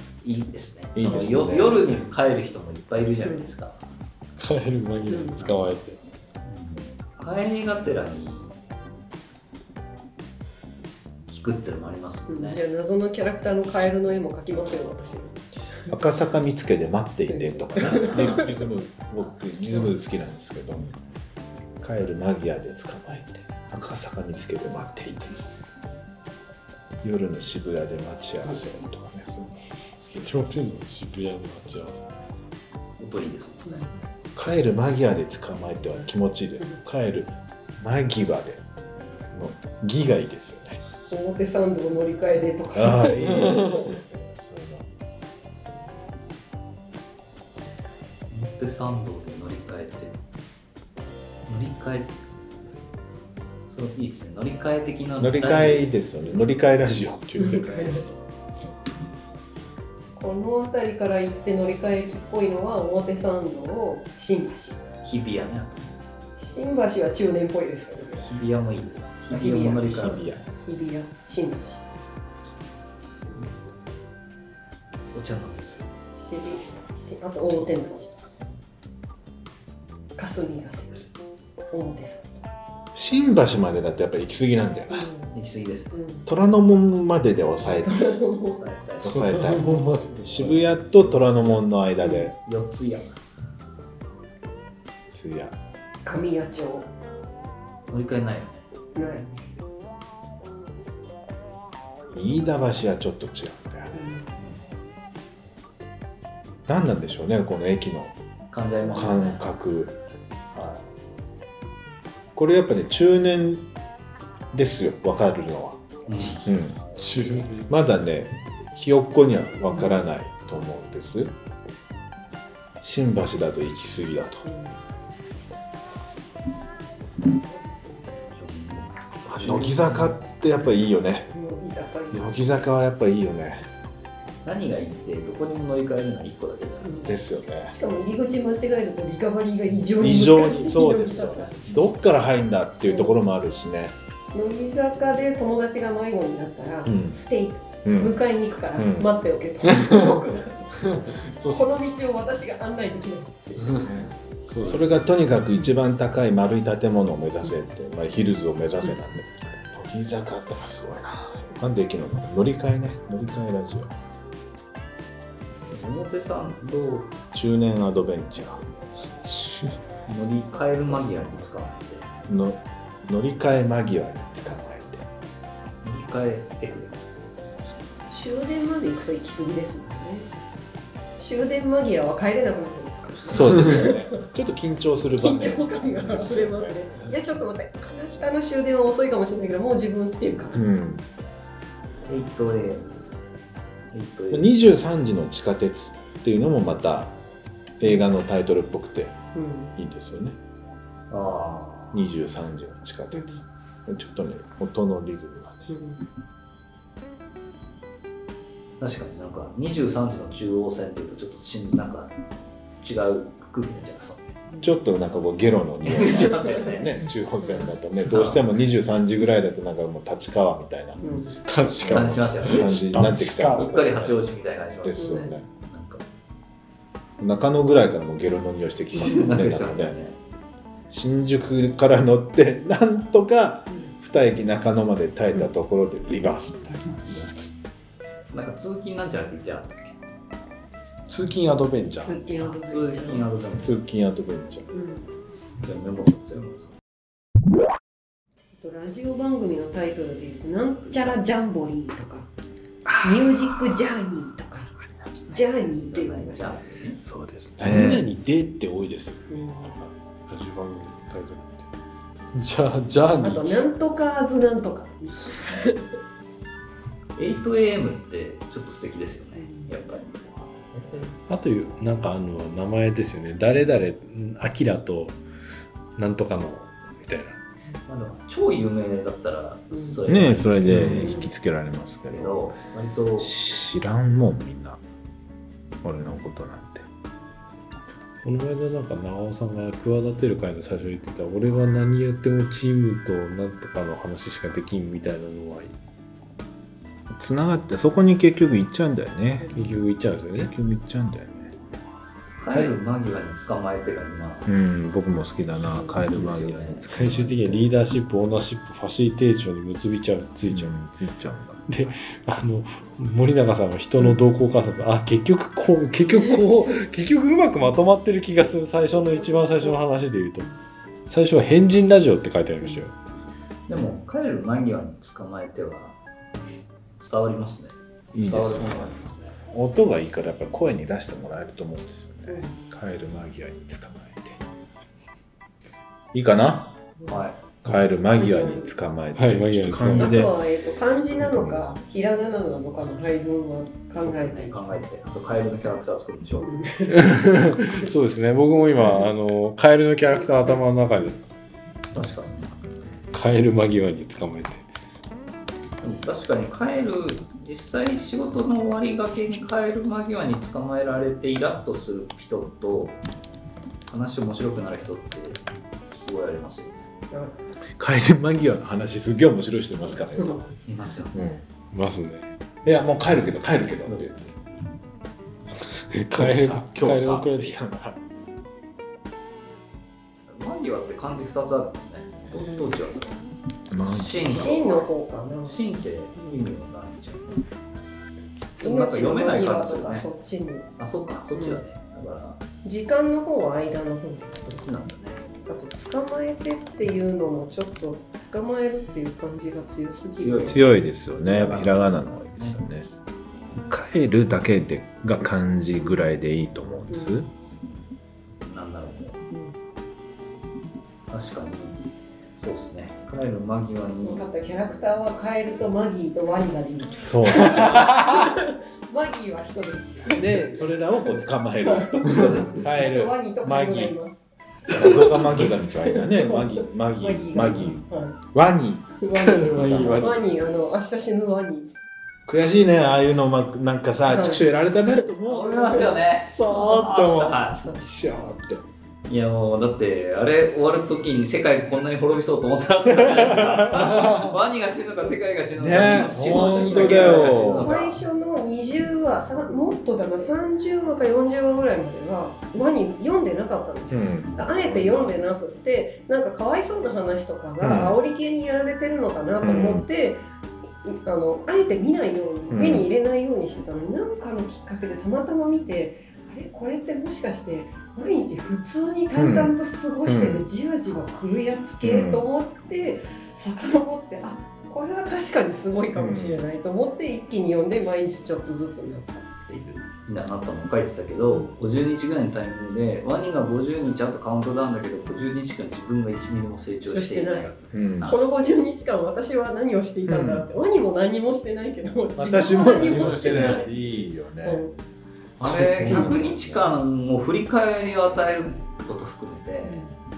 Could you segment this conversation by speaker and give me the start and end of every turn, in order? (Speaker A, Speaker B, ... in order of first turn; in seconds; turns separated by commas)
Speaker A: 0.2-3.8, Speaker B: 1.0-2.0, Speaker C: 3.2-3.5, Speaker D: 4.4-6.0, Speaker C: 5.1-5.4, Speaker A: 6.5-8.6, Speaker A: 11.3-12.6, Speaker C: 12.3-15.4, Speaker B: 15.9-20.9, Speaker C: 17.3-18.5, Speaker B: 21.8-25.4, Speaker B: 27.0-30.6, Speaker D: 30.2-32.1, Speaker A: 33.0-33.9, Speaker B: 34.4-38.6, Speaker B: 39.3-40.8, Speaker C: 41.1-43.9, Speaker B: 42.8-44.9, Speaker A: 48.3-50.2, Speaker A: 51.5-52.2, Speaker A: 53.7-55.9, Speaker B: 55.2-58.0, Speaker D: 57.3-58.0, Speaker C: 57.4-58.0, Speaker C: 60.2-64.8, Speaker A: 65.0-66.0, Speaker C: 66.4-68.3, Speaker A: 68.2-70.4, Speaker C: 69.3-71.8, Speaker B: 70.1-70.4, Speaker A: 75.1-75.9, Speaker C: 76.2-78.1, Speaker C: 80.2-81.1, Speaker C: 81.7-82.4, Speaker B: 83.0-85.1, Speaker C: 84.9-85.3, Speaker A: 85.3-85.9, Speaker C: 85.9-86.3, Speaker B: 86.2-88.2, Speaker C: 87.7-88.6, Speaker A: 88.5-91.7, Speaker B: 89.0-89.7, Speaker D: 89.1-90.5, Speaker B: 90.2-92.4, Speaker C: 92.0-92.3, Speaker A: 92.4-93.2, Speaker B: 95.1-95.6, Speaker C: 96.0-96.9, Speaker A: 97.9-98.7, Speaker C: 99.0-99.3, Speaker B: 102.1-104.0, Speaker C: 103.9-104.3, Speaker B: 106.7-108.2, Speaker A: 108.5-109.4, Speaker B: 108.8-110.0, Speaker A: 110.5-110.9, Speaker B: 112.3-113.7, Speaker B: 114.5-115.8, Speaker A: 116.1-116.5, Speaker B: 116.3-116.8, Speaker D: 117.0-117.8, Speaker B: 117.7-121.3, Speaker B: 122.8-124.5, Speaker C: 124.5-124.8, Speaker C: 127.5-128.1, Speaker A: 128.4-130.2, Speaker B: 129.2-131.3, Speaker C: 131.3-132.3, Speaker B: 132.1-133.7, Speaker A: 134.4-137.1, Speaker C: 136.8-137.2, Speaker B: 137.1-137.7, Speaker C: 137.7-141.6, Speaker B: 140.0-143.9, Speaker C: 142.9-143.2, Speaker C: 144.3-153.9, Speaker B: 146.9-147.2, Speaker B: 147.8-148.2, Speaker B: 148.8-149.1, Speaker D: 149.8-150.2, Speaker D: 150.9-151.8, Speaker B: 153.6-163.9, Speaker D: 154.5-154.9, Speaker A: 165.7-167.2, Speaker B: 167.3-168.6, Speaker B: 169.2-169.6, Speaker A: 170.1-172.1, Speaker B: 172.3-175.1, Speaker A: 175.8-177.0, Speaker C: 178.1-180.3, Speaker C: 181.2-184.2, Speaker B: 183.3-187.1, Speaker C: 185.2-190.6, Speaker B: 190.5-191.0, Speaker A: 192.1-193.0, Speaker A: 193.9-194.5, Speaker B: 194.3-197.2, Speaker B: 197.8-199.2, Speaker C: 199.3-199.7, Speaker B: 199.8-200.4, Speaker A: 201.1-202.0, Speaker B: 201.9-205.7, Speaker C: 203.1-203.4, Speaker C: 205.7-206.0, Speaker A: 208.8-212.1, Speaker A: 212.8-214.3, Speaker B: 214.6-221.0, Speaker A: 215.9-216.9, Speaker C: 217.4-217.7, Speaker A: 218.1-218.4, Speaker C: 221.0-221.4, Speaker D: 221.5-223.8, Speaker B: 221.6-224.2, Speaker A: 221.8-222.9, Speaker A: 223.5-226.0, Speaker B: 224.8-225.5, Speaker C: 225.0-225.3, Speaker B: 227.2-229.9, Speaker A: 228.9-230.2, Speaker B: 230.9-237.3, Speaker A: 238.3-240.0, Speaker D: 241.1-242.2, Speaker C: 242.0-243.3, Speaker A: 242.4-243.8, Speaker B: 243.6-244.7, Speaker C: 244.7-245.1, Speaker A: 245.6-246.8, Speaker C: 248.6-252.3, Speaker A: 250.8-251.2, Speaker B: 252.8-253.8, Speaker C: 253.0-254.7, Speaker B: 254.8-255.4, Speaker C: 255.3-256.7, Speaker A: 255.8-257.0, Speaker B: 257.0-258.1, Speaker D: 257.6-261.7, Speaker C: 259.3-259.8, Speaker D: 262.3-263.6, Speaker C: 263.2-266.0, Speaker A: 267.1-271.1, Speaker C: 269.4-269.7, Speaker D: 271.3-275.2, Speaker D: 276.0-277.4, Speaker A: 277.9-281.3, Speaker C: 279.7-280.0, Speaker B: 280.1-282.6, Speaker C: 281.0-281.3, Speaker A: 282.1-283.4, Speaker B: 283.2-284.8, Speaker B: 285.8-286.9, Speaker D: 288.2-295.8, Speaker B: 297.1-299.6, Speaker C: 299.4-299.7, Speaker D: 299.6-300.5, Speaker B: 300.4-301.5, Speaker A: 302.4-304.5, Speaker D: 302.5-302.8, Speaker B: 304.5-307.7, Speaker C: 305.8-306.1, Speaker A: 306.0-307.0, Speaker D: 306.9-310.7, Speaker B: 310.5-312.0, Speaker D: 311.7-320.5, Speaker C: 318.9-319.8, Speaker D: 321.1-322.9, Speaker A: 323.7-326.0, Speaker A: 327.0-329.4, Speaker B: 328.1-328.9, Speaker B: 329.5-334.4, Speaker C: 332.3-332.6, Speaker B: 336.1-336.8, Speaker A: 337.1-337.4, Speaker B: 337.6-340.3, Speaker C: 338.1-338.7, Speaker D: 339.1-340.3, Speaker C: 339.9-344.7, Speaker B: 341.2-341.6, Speaker A: 344.0-346.5, Speaker C: 346.4-347.9, Speaker D: 346.9-351.2, Speaker A: 351.9-352.5, Speaker D: 353.1-354.7, Speaker A: 355.8-363.0, Speaker A: 363.9-366.9, Speaker B: 367.8-370.5, Speaker C: 370.1-370.5, Speaker A: 370.6-371.2, Speaker B: 371.1-371.4, Speaker D: 371.7-372.3, Speaker B: 372.6-374.3, Speaker D: 375.9-377.6, Speaker B: 376.1-378.0, Speaker A: 380.3-383.2, Speaker C: 382.4-382.6, Speaker B: 383.7-384.6, Speaker A: 383.8-384.9, Speaker C: 384.2-385.6, Speaker A: 385.4-387.5, Speaker A: 388.6-390.1, Speaker C: 388.6-390.7, Speaker A: 390.8-392.4, Speaker C: 391.4-391.6, Speaker C: 392.6-394.6, Speaker A: 394.4-395.2, Speaker C: 395.5-400.6, Speaker A: 400.2-402.6, Speaker B: 400.5-402.9, Speaker B: 403.6-407.3, Speaker C: 406.9-407.2, Speaker A: 408.4-409.2, Speaker A: 411.1-411.9, Speaker A: 412.4-414.3, Speaker C: 414.0-428.2, Speaker B: 417.0-417.9, Speaker B: 420.1-423.9, Speaker A: 422.2-422.5, Speaker B: 424.7-430.1, Speaker C: 429.0-431.7, Speaker D: 429.1-430.2, Speaker B: 432.3-438.6, Speaker C: 434.1-436.0, Speaker A: 435.2-437.6, Speaker A: 439.1-448.0, Speaker B: 443.0-444.2, Speaker B: 445.6-447.8, Speaker C: 446.0-460.3, Speaker B: 453.9-454.3, Speaker A: 454.2-455.2, Speaker B: 457.6-458.0, Speaker B: 459.4-459.9, Speaker C: 460.8-479.9, Speaker B: 462.5-462.9, Speaker B: 469.1-469.5, Speaker B: 470.1-470.4, Speaker B: 471.8-472.3, Speaker B: 475.9-476.4, Speaker A: 480.0-488.1, Speaker C: 486.8-493.7, Speaker B: 487.7-488.1, Speaker B: 490.1-490.5, Speaker B: 492.1-494.6, Speaker A: 492.8-493.7, Speaker C: 494.4-494.8, Speaker A: 495.4-499.9, Speaker B: 495.4-496.7, Speaker C: 495.9-496.2, Speaker C: 499.6-499.9